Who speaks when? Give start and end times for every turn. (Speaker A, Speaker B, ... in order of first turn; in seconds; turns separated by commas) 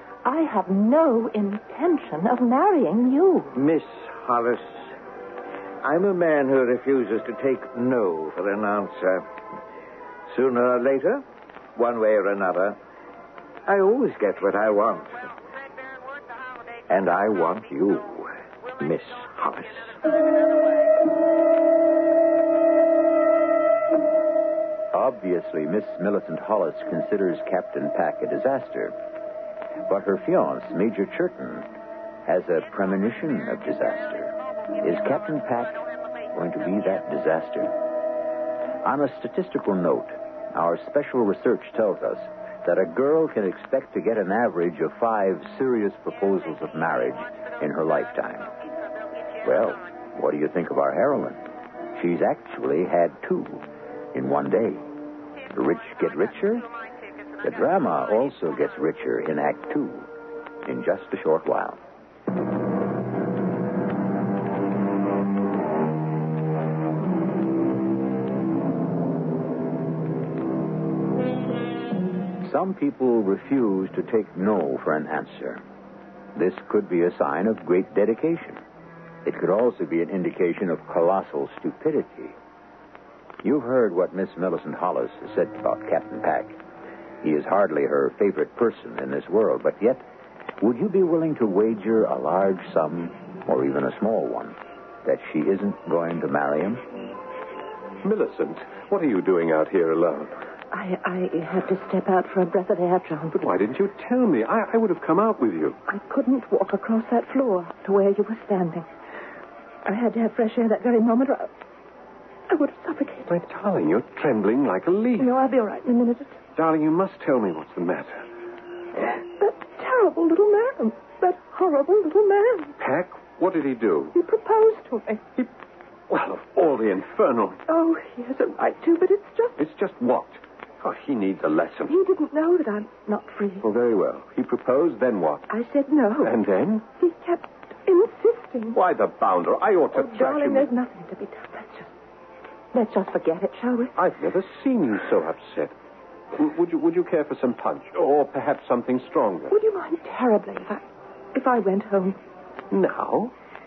Speaker A: 0.2-3.5, Speaker B: 3.5-4.8, Speaker B: 5.8-9.2, Speaker B: 10.3-11.2, Speaker B: 11.8-12.8, Speaker B: 13.7-15.2, Speaker B: 16.9-20.0, Speaker C: 24.9-28.9, Speaker C: 29.9-31.7, Speaker C: 32.2-37.7, Speaker C: 38.8-48.5, Speaker C: 49.4-53.6, Speaker C: 54.1-54.9, Speaker C: 55.5-56.7, Speaker C: 57.4-60.1, Speaker C: 60.6-61.8, Speaker C: 72.4-75.6, Speaker C: 76.3-78.6, Speaker C: 79.2-82.4, Speaker C: 83.4-86.6, Speaker C: 87.2-90.0, Speaker C: 90.6-96.8, Speaker D: 98.0-100.3, Speaker A: 100.7-103.4, Speaker D: 103.3-105.8, Speaker A: 105.9-108.9, Speaker A: 109.8-111.5, Speaker A: 112.5-113.3, Speaker D: 113.3-115.3, Speaker A: 115.2-116.3, Speaker D: 116.6-118.2, Speaker A: 119.1-122.7, Speaker D: 122.8-124.1, Speaker A: 124.1-125.2, Speaker D: 126.1-127.6, Speaker A: 127.7-129.6, Speaker D: 129.6-131.9, Speaker A: 131.9-133.7, Speaker D: 133.6-135.4, Speaker A: 135.5-136.3, Speaker D: 136.2-136.8, Speaker A: 137.0-138.8, Speaker D: 138.7-140.7, Speaker A: 139.9-141.9, Speaker A: 142.7-143.9, Speaker D: 143.9-145.7, Speaker D: 146.3-149.5, Speaker A: 149.5-152.2, Speaker D: 152.7-153.3